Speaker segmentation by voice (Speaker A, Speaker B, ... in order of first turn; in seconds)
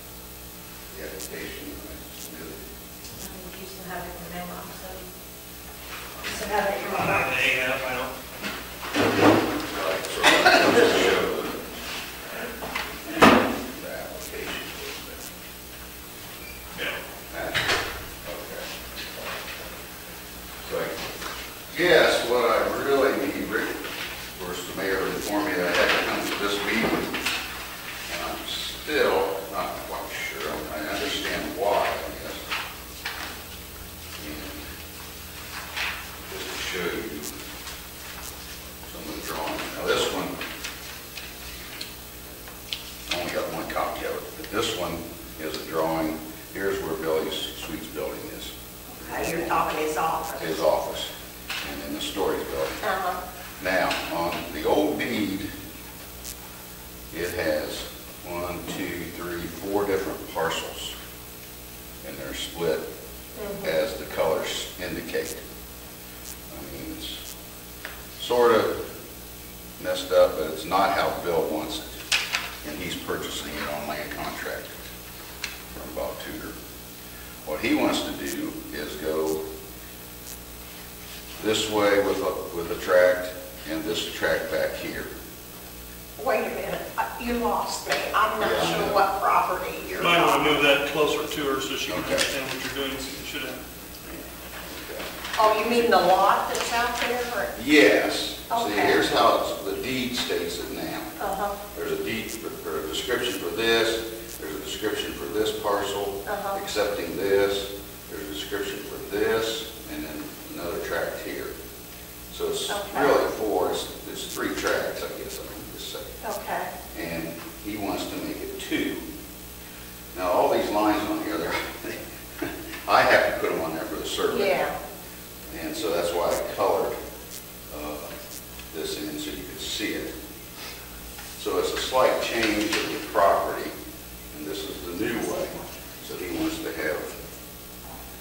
Speaker A: 0.9-2.6, 9.7-11.8, 13.7-15.2, 17.3-17.7, 18.2-18.7, 20.6-21.0, 21.7-23.7, 24.3-27.1, 28.1-32.4, 34.2-34.6, 36.3-37.3, 38.9-40.3, 43.1-49.6, 50.4-52.8, 53.6-55.5, 57.1-60.9, 62.0-62.8, 63.5-65.4, 66.5-67.2, 68.2-68.8, 69.8-71.9, 72.6-74.8, 75.7-76.5, 77.4-79.4, 81.4-85.1, 88.4-89.0, 91.9-92.2, 94.0-95.1, 97.5-101.1, 101.7-111.5, 112.3-116.2, 116.9-119.0, 120.1-124.7, 125.5-127.0, 127.7-128.1, 128.7-130.1, 131.4-133.7, 134.3-137.1
Speaker B: 3.2-5.0, 6.2-7.3
Speaker C: 6.8-8.1, 90.0-93.6
Speaker D: 48.9-50.6, 52.8-53.2, 63.4-63.7, 86.2-90.7, 95.3-97.5, 98.5-99.0, 101.2-101.6, 106.2-106.6, 112.7-113.3, 116.2-116.7, 124.3-124.7